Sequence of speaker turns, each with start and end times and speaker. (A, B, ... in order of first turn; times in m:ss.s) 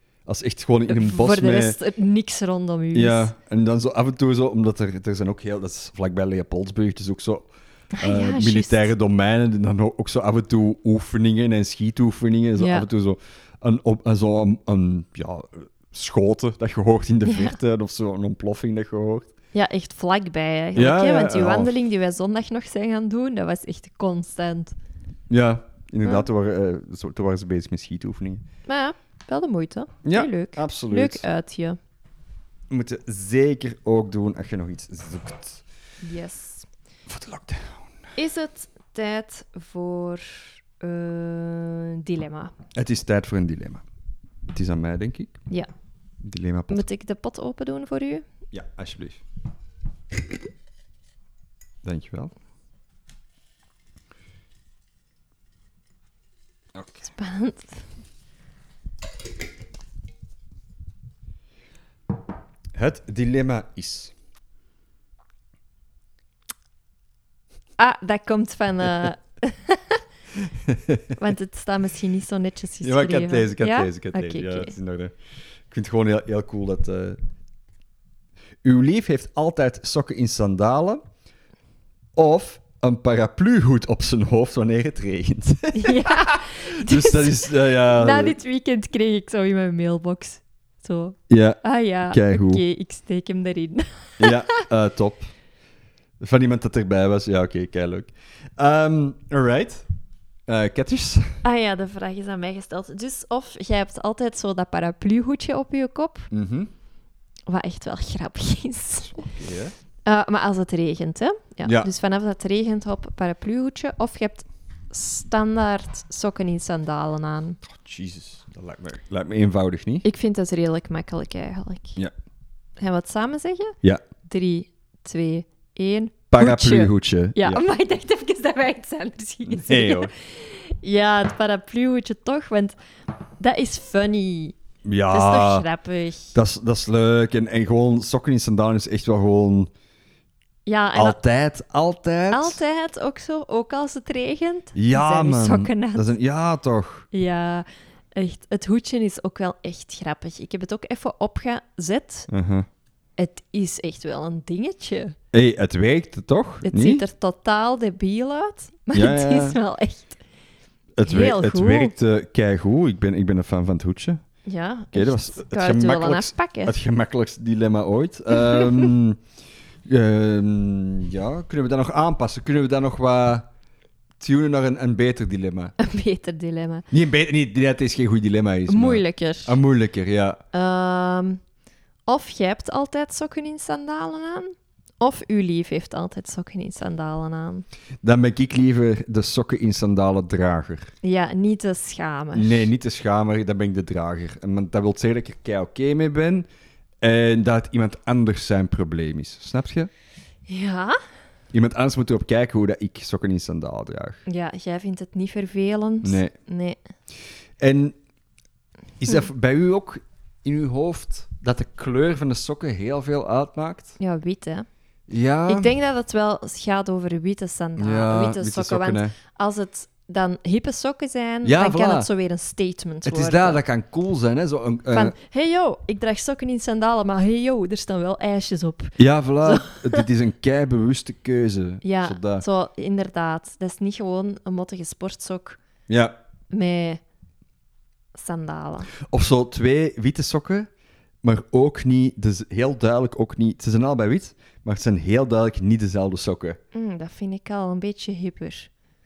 0:00.2-0:01.8 A
0:00.9-0:03.3 B
0:02.9-0:19.3 A
0:08.0-0:08.9 B
0:12.6-0:12.9 B
0:17.2-0:17.5 B
0:19.5-0:24.7 B
0:20.8-0:21.7 A
0:25.3-0:28.4 A
0:28.7-0:31.8 B
0:30.0-0:31.2 A
0:32.7-0:35.6 A
0:36.0-0:36.7 B
0:37.1-0:38.1 A
0:38.2-0:42.5 B
0:42.7-0:43.8 A
0:44.5-0:45.4 A
0:46.2-0:46.8 A
0:46.7-0:48.2 B
0:48.5-0:49.2 A
0:51.8-0:52.3 A
0:56.7-0:57.1 A
0:57.1-0:57.8 B
1:02.7-1:04.1 A
1:07.8-1:10.0 B
1:10.6-1:11.1 A
1:11.2-1:14.7 B
1:12.8-1:15.1 A
1:15.7-1:17.2 A
1:18.6-1:21.0 A
1:22.2-1:28.4 A
1:25.7-1:34.6 B
1:31.3-1:32.6 A
1:34.2-1:35.3 A
1:36.2-1:39.8 A
1:40.5-1:41.4 A
1:41.4-1:46.3 B
1:46.3-1:46.7 A
1:47.5-1:49.3 B
1:49.0-1:49.7 A
1:50.0-1:57.6 B
1:51.6-1:51.9 A
1:57.6-2:00.0 A
2:00.0-2:02.0 B
2:02.8-2:12.8 B
2:06.3-2:07.6 A
2:09.4-2:10.1 A
2:13.4-2:14.6 B
2:14.8-2:15.6 A
2:15.1-2:16.4 B
2:16.3-2:19.7 A
2:20.7-2:21.2 B
2:20.9-2:22.6 A
2:22.3-2:26.2 B
2:24.7-2:27.0 A
2:27.1-2:32.3 B
2:32.3-2:32.7 A
2:33.2-2:35.2 B
2:35.3-2:37.0 A
2:36.6-2:40.2 B
2:38.9-2:39.6 A
2:41.0-2:44.2 A
2:41.0-2:41.9 B
2:44.4-2:46.7 B
2:44.9-2:49.2 A
2:48.5-2:48.8 B
2:49.8-2:53.5 A
2:54.2-2:55.7 A
2:55.8-2:56.9 B
2:56.9-3:00.4 A
2:58.7-2:59.6 B
3:00.5-3:01.4 B
3:02.1-3:07.6 B
3:08.0-3:10.9 A
3:11.0-3:12.7 B
3:12.3-3:16.5 A
3:17.0-3:19.9 A
3:20.5-3:21.0 B
3:21.5-3:24.2 A
3:24.2-3:26.8 B
3:26.0-3:26.3 A
3:27.6-3:28.0 A
3:29.0-3:34.0 A
3:34.0-3:34.6 B
3:35.1-3:35.7 A
3:35.5-3:43.6 B
3:37.8-3:39.1 A
3:41.4-3:42.1 A
3:43.0-3:45.1 A
3:44.9-3:50.0 B
3:49.0-3:52.4 A
3:51.8-3:55.6 B
3:55.9-3:56.1 A
3:56.5-3:57.0 B
3:58.1-3:58.9 B
3:59.0-4:00.7 A
4:01.2-4:06.6 A
4:06.7-4:08.7 B